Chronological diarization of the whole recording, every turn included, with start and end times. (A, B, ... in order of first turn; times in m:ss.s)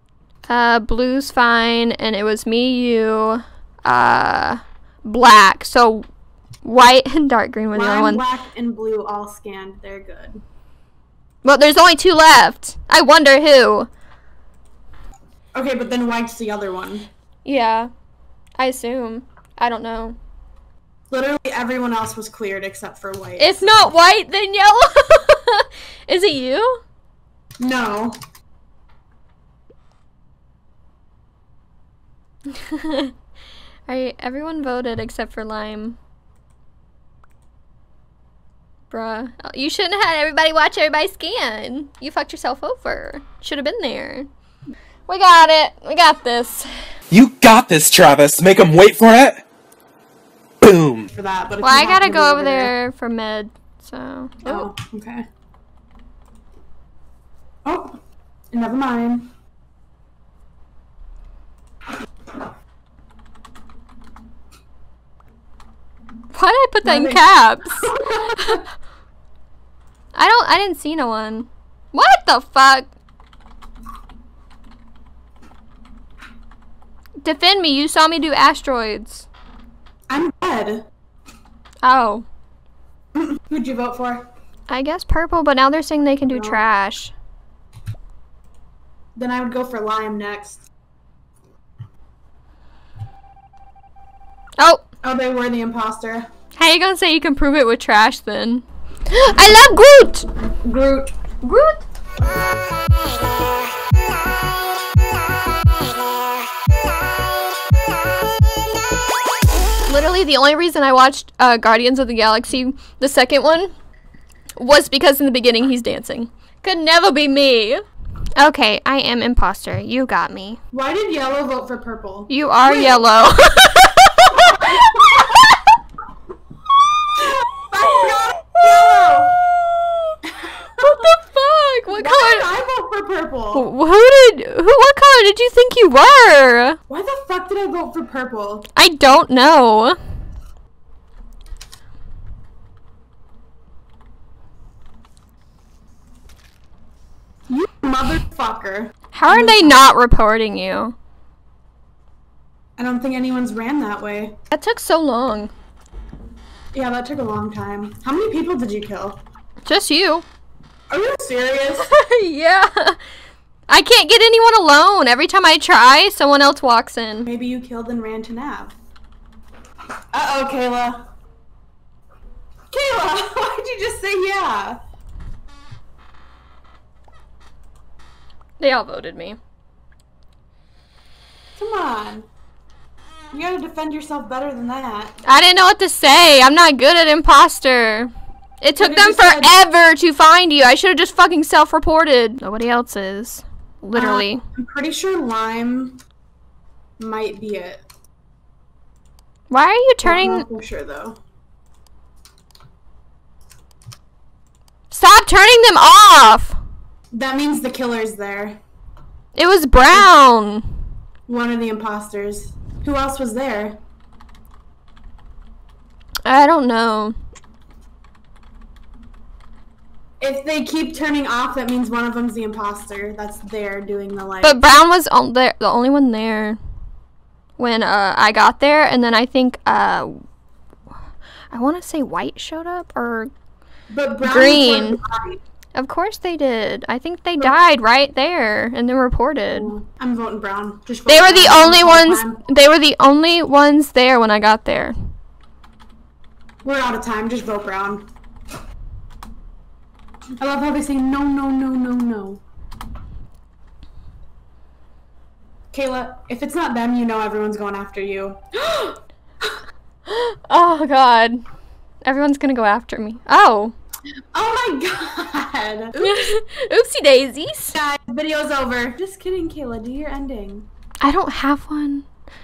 0:00.5-0:06.0 A
0:06.6-0:08.2 A
0:07.7-0:10.4 B
0:11.4-0:13.9 A
0:15.6-0:17.1 B
0:17.4-0:17.9 A
0:18.6-0:20.2 A
0:21.1-0:23.9 B
0:23.4-0:26.8 A
0:27.6-0:28.2 B
0:32.5-0:33.1 A
0:33.9-0:36.0 A
0:38.9-0:44.3 A
0:45.1-0:46.7 A
0:47.1-0:49.4 C
0:50.6-0:51.1 C
0:51.1-0:52.7 B
0:51.6-0:54.7 A
0:54.4-0:55.2 B
0:57.6-0:58.0 B
0:58.5-0:59.3 B
1:06.3-1:08.6 A
1:06.8-1:07.2 B
1:07.8-1:08.6 B
1:10.1-1:12.9 A
1:17.2-1:19.3 A
1:20.1-1:20.9 B
1:21.8-1:22.3 A
1:23.2-1:24.3 B
1:24.7-1:27.1 A
1:26.3-1:26.6 B
1:29.2-1:30.7 B
1:35.0-1:36.2 B
1:36.6-1:40.3 A
1:40.6-1:41.1 B
1:41.4-1:41.8 A
1:49.9-1:53.7 A
1:54.6-1:57.8 A
1:58.4-2:00.6 A
2:00.7-2:03.0 B
2:02.3-2:05.6 A
2:04.6-2:05.4 B
2:07.5-2:09.4 B
2:09.7-2:10.1 A
2:10.2-2:11.0 B
2:10.8-2:12.5 A
2:11.9-2:13.7 B
2:13.5-2:16.8 A
2:16.9-2:18.7 B
2:18.8-2:20.0 A
2:27.5-2:29.9 B
2:29.1-2:30.9 A
2:32.8-2:34.4 B
2:34.5-2:35.5 A
2:36.7-2:39.2 B
2:39.6-2:40.2 A
2:40.9-2:41.9 B
2:41.8-2:43.0 A
2:43.7-2:47.3 A
2:47.3-2:48.7 B
2:50.1-2:51.1 B
2:52.7-2:54.8 B
2:58.6-2:59.4 A
3:01.6-3:02.3 B
3:03.3-3:05.2 B
3:05.3-3:14.4 A
3:08.8-3:09.5 B
3:13.9-3:16.0 B
3:17.0-3:17.8 B
3:19.5-3:20.5 A
3:20.0-3:21.2 B
3:24.9-3:26.6 A
3:27.1-3:28.6 B
3:29.4-3:30.6 A
3:31.3-3:33.8 B
3:36.3-3:37.2 A
3:40.2-3:44.6 B
3:44.4-3:46.6 A
3:47.6-3:50.1 A
3:51.5-3:53.3 A
3:53.9-3:55.4 B
3:54.2-3:55.0 A
3:55.8-3:59.7 A
3:59.5-4:02.4 B
4:01.1-4:05.0 A
4:06.6-4:08.0 B
4:10.4-4:12.4 B
4:15.7-4:19.5 B
4:20.1-4:21.4 A
4:22.0-4:23.8 A
4:24.3-4:26.3 B
4:26.0-4:27.8 A
4:27.7-4:30.7 B
4:31.0-4:32.0 A